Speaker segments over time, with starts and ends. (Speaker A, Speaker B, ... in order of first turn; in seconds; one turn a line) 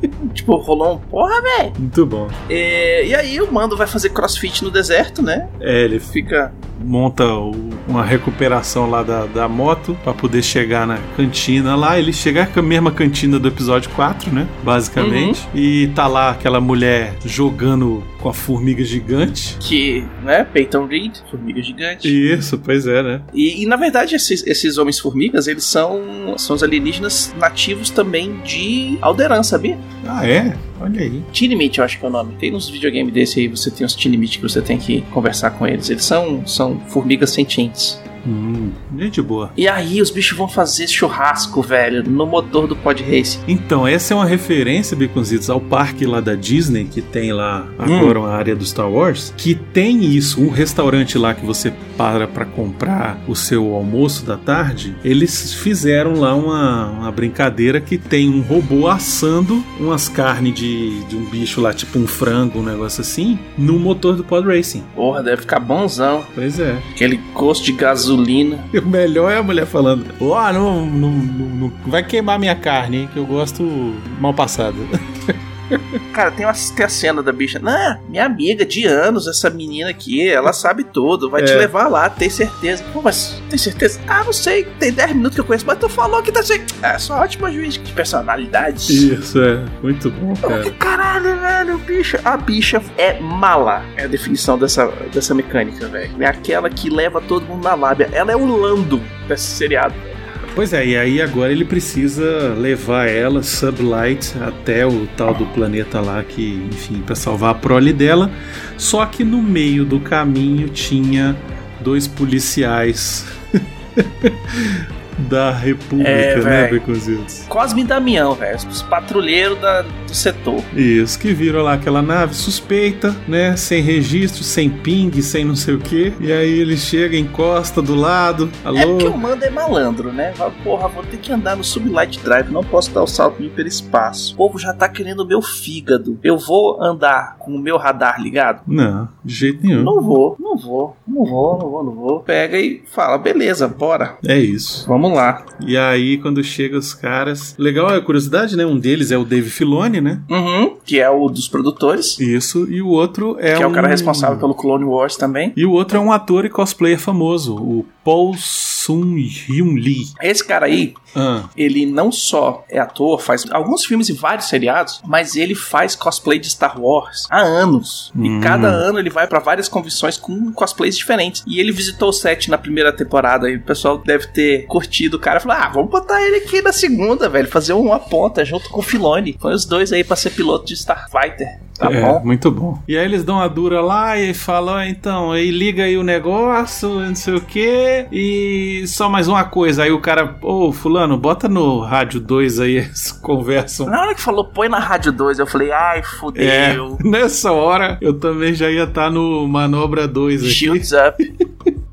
Speaker A: 0.2-1.8
Speaker B: 1.8-2.4
Speaker A: 2.5-5.5
Speaker B: 5.6-6.1
Speaker A: 6.1-6.6
Speaker B: 6.7-19.6
Speaker A: 15.0-15.4
Speaker A: 19.6-22.2
Speaker B: 22.0-23.3
Speaker A: 23.3-29.8
Speaker B: 30.0-31.3
Speaker A: 31.3-38.0
Speaker B: 38.2-39.5
Speaker A: 39.5-43.4
Speaker B: 43.5-64.9
Speaker A: 47.8-48.2
Speaker A: 64.9-66.3
Speaker B: 66.3-66.9
Speaker A: 66.9-68.7
Speaker B: 68.7-75.8
Speaker A: 76.1-89.1
Speaker B: 81.4-81.7
Speaker B: 88.9-90.7
Speaker A: 90.4-100.2
Speaker B: 100.5-113.3
Speaker B: 114.0-117.5
Speaker A: 116.0-116.8
Speaker A: 117.5-120.7
Speaker B: 120.7-129.2
Speaker A: 128.7-138.6
Speaker B: 138.7-140.0
Speaker A: 139.8-144.2
Speaker B: 144.2-144.9
Speaker A: 144.8-145.5
Speaker B: 145.6-150.3
Speaker A: 150.3-152.2
Speaker B: 152.2-154.5
Speaker A: 153.5-155.6
Speaker B: 155.6-160.1
Speaker A: 160.2-161.0
Speaker B: 161.1-161.5
Speaker A: 161.5-182.2
Speaker B: 168.2-168.8
Speaker B: 181.8-193.9
Speaker A: 193.8-197.0
Speaker B: 196.3-200.9
Speaker A: 200.4-201.3